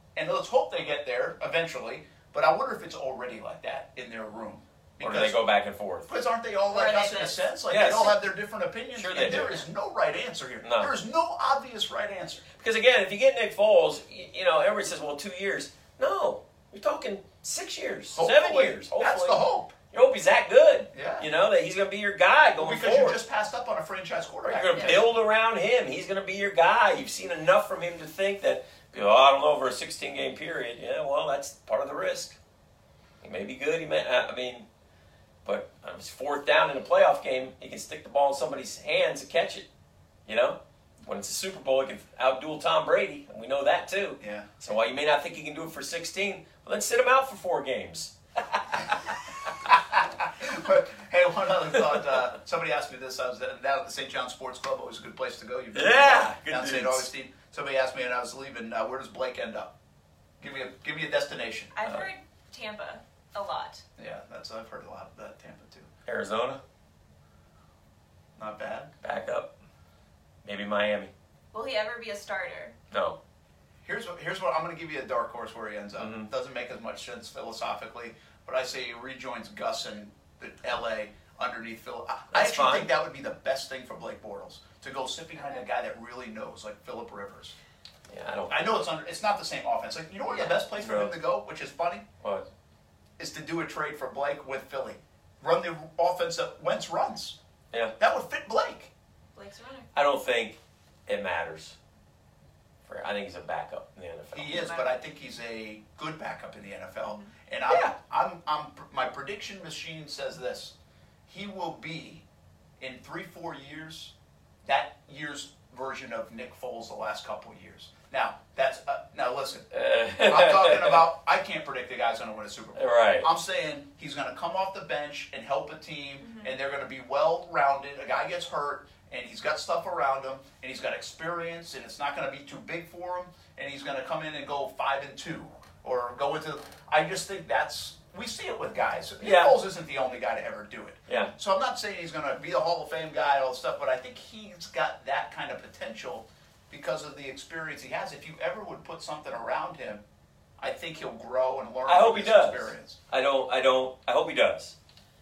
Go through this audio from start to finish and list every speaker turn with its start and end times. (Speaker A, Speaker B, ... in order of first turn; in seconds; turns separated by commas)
Speaker A: 0.1-5.4, Speaker B: 5.0-6.1, Speaker A: 6.1-12.5, Speaker C: 6.7-7.5, Speaker B: 7.7-8.2, Speaker B: 8.9-9.7, Speaker B: 10.6-10.9, Speaker B: 12.6-23.2, Speaker A: 18.1-19.7, Speaker A: 20.9-21.3, Speaker A: 22.6-25.1, Speaker B: 24.4-32.4, Speaker B: 33.2-34.7, Speaker B: 35.4-39.6, Speaker B: 40.2-49.1, Speaker A: 44.2-44.5, Speaker A: 49.6-59.7, Speaker B: 55.7-57.1, Speaker A: 60.4-61.7, Speaker C: 61.7-63.8, Speaker B: 61.8-62.1, Speaker A: 64.0-65.9, Speaker B: 66.0-66.6, Speaker A: 68.4-68.9, Speaker B: 69.0-69.5, Speaker B: 70.4-71.1, Speaker C: 71.5-72.8, Speaker B: 72.9-73.2, Speaker A: 73.8-87.5, Speaker B: 76.0-76.3, Speaker B: 82.3-82.9, Speaker B: 88.1-88.8, Speaker A: 88.5-92.0, Speaker B: 90.3-91.2, Speaker A: 93.2-97.4, Speaker A: 98.0-98.9, Speaker C: 99.3-99.9, Speaker B: 99.9-101.8, Speaker B: 102.8-104.6, Speaker A: 104.3-110.7, Speaker C: 104.5-104.9, Speaker B: 107.7-107.9, Speaker A: 111.3-112.2, Speaker A: 112.8-114.1, Speaker A: 114.6-119.7, Speaker B: 119.7-121.1, Speaker A: 120.2-150.0, Speaker B: 122.7-123.3, Speaker C: 126.2-126.5, Speaker B: 139.2-139.6, Speaker B: 141.1-141.3, Speaker A: 150.6-153.0, Speaker B: 151.8-154.7